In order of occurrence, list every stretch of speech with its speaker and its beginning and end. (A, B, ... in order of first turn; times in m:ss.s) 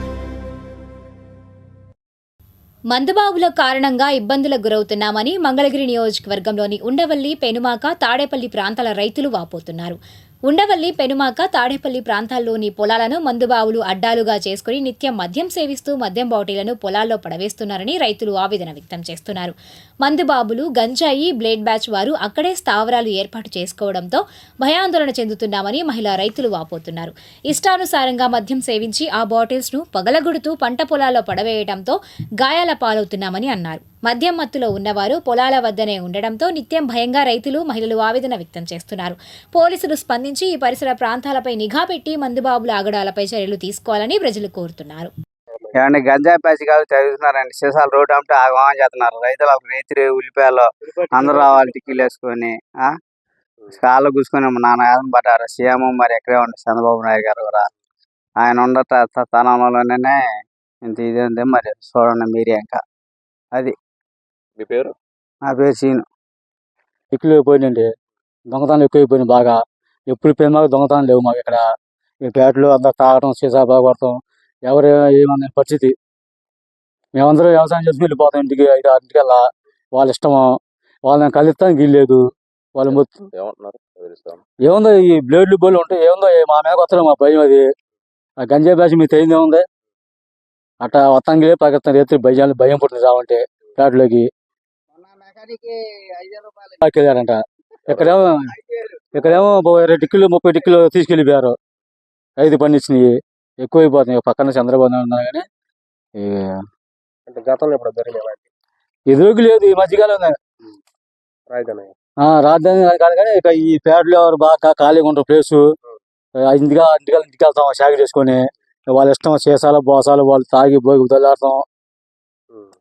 0:02.9-0:45.1 A
0:45.8-0:53.0 B
0:53.7-0:57.6 B
0:58.4-1:00.2 B
1:00.8-1:02.8 B
1:04.6-1:04.9 C
1:05.5-1:06.0 B
1:07.1-1:07.9 D
1:08.5-1:11.6 D
1:12.2-1:15.9 D
1:17.2-1:19.4 D
1:20.0-1:22.2 D
1:22.8-1:23.2 D
1:22.9-1:24.4 C
1:24.6-1:27.6 D
1:28.4-1:29.6 D
1:30.8-1:34.3 D
1:35.1-1:36.7 B
1:36.8-1:38.5 D
1:39.1-1:41.6 D
1:42.4-1:45.4 D
1:46.2-1:46.6 D
1:47.3-1:48.5 C
1:49.1-1:50.4 D
1:51.5-1:51.9 C
1:52.2-1:55.6 D
1:56.5-1:58.4 D
1:58.9-2:01.6 D